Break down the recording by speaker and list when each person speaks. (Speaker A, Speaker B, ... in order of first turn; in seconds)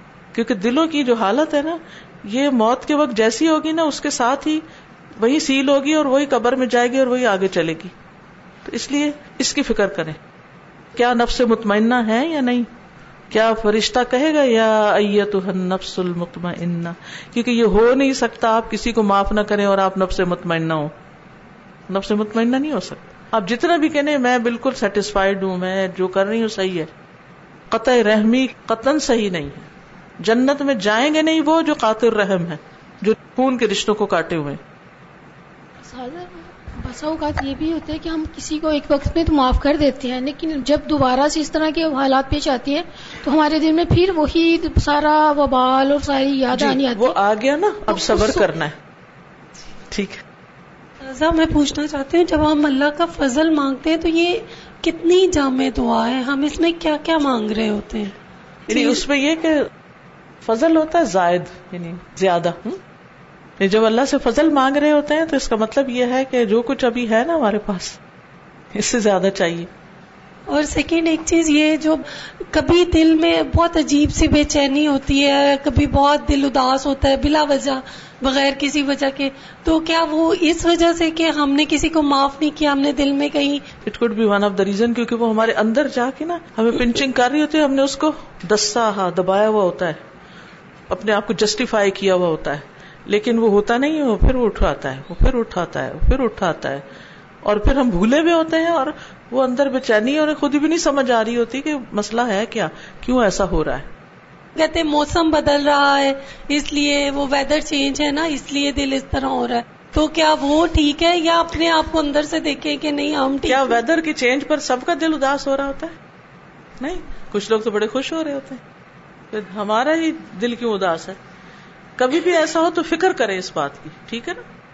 Speaker A: 0.3-4.6, 5.2-7.9, 8.6-10.2, 10.9-12.7, 13.3-20.9, 21.9-26.9, 27.7-29.7, 30.2-34.6, 46.5-48.8, 49.9-50.2, 58.7-59.7, 60.4-62.8, 63.6-68.0, 68.7-69.7, 83.8-90.0, 90.9-96.8, 97.4-103.9, 113.5-116.0, 116.8-118.6, 119.3-121.2, 122.0-124.4
Speaker B: 35.8-47.1, 47.9-48.5
Speaker C: 51.0-58.1, 58.7-59.0, 70.5-83.6, 104.5-113.7